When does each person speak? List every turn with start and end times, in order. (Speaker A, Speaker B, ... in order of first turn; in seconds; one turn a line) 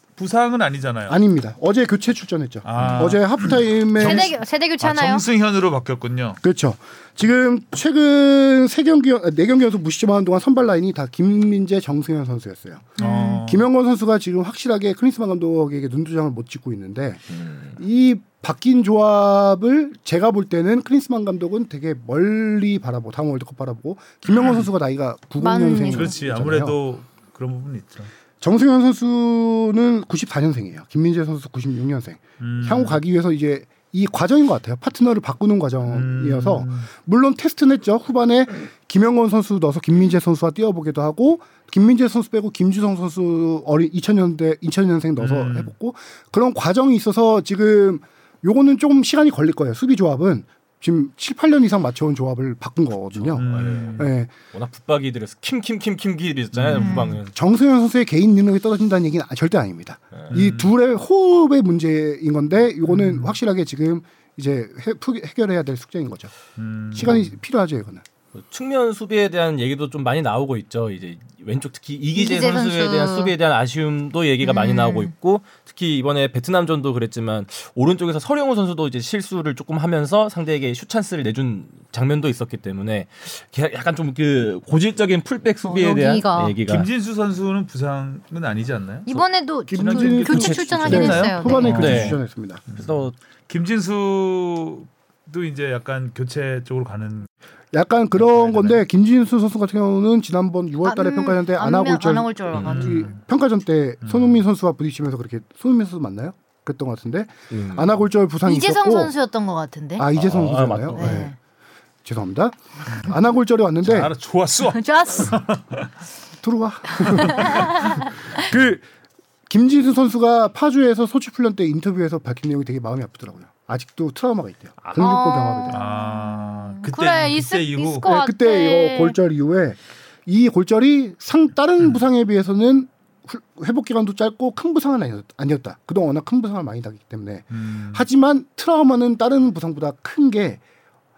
Speaker A: 0.1-1.2
Speaker B: 1.1-4.3
Speaker A: 2.6-6.4
Speaker C: 2.8-3.1
Speaker D: 4.0-5.2
Speaker B: 6.4-17.2
Speaker D: 13.0-13.4
Speaker A: 13.0-13.7
Speaker C: 17.3-17.7
Speaker B: 17.8-26.8
Speaker A: 24.3-24.6
Speaker D: 25.4-26.1
Speaker A: 25.9-28.1
Speaker B: 28.4-54.3
Speaker A: 32.4-33.0
Speaker A: 35.9-36.9
Speaker A: 45.2-45.7
Speaker C: 53.1-57.3
Speaker A: 53.4-54.0
Speaker A: 56.5-57.1
Speaker D: 56.7-57.2
Speaker B: 57.3-66.3
Speaker A: 60.3-60.7
Speaker A: 62.9-63.3
Speaker A: 66.6-67.3
Speaker B: 66.9-68.0
Speaker C: 68.3-86.9
Speaker D: 72.1-73.3
Speaker D: 74.4-75.1
Speaker D: 85.6-86.6
Speaker A: 86.7-89.0
Speaker D: 89.0-92.1
Speaker B: 89.7-92.6
Speaker A: 89.7-92.2
Speaker C: 90.2-92.2
Speaker C: 92.7-93.1
Speaker A: 93.5-97.3
Speaker B: 97.7-109.1
Speaker A: 98.1-98.8
Speaker D: 100.8-103.1
Speaker A: 102.6-103.1
Speaker A: 104.0-104.4
Speaker C: 107.5-108.0
Speaker D: 108.5-110.0
Speaker B: 110.0-111.3
Speaker C: 110.1-111.2
Speaker D: 110.9-111.3
Speaker B: 112.0-114.1
Speaker A: 113.8-115.9
Speaker D: 114.7-115.4
Speaker B: 116.4-118.8
Speaker D: 117.0-118.5
Speaker A: 117.0-117.9
Speaker B: 119.5-125.8
Speaker D: 125.0-129.2
Speaker A: 125.7-128.1
Speaker B: 128.1-140.6
Speaker A: 137.5-138.0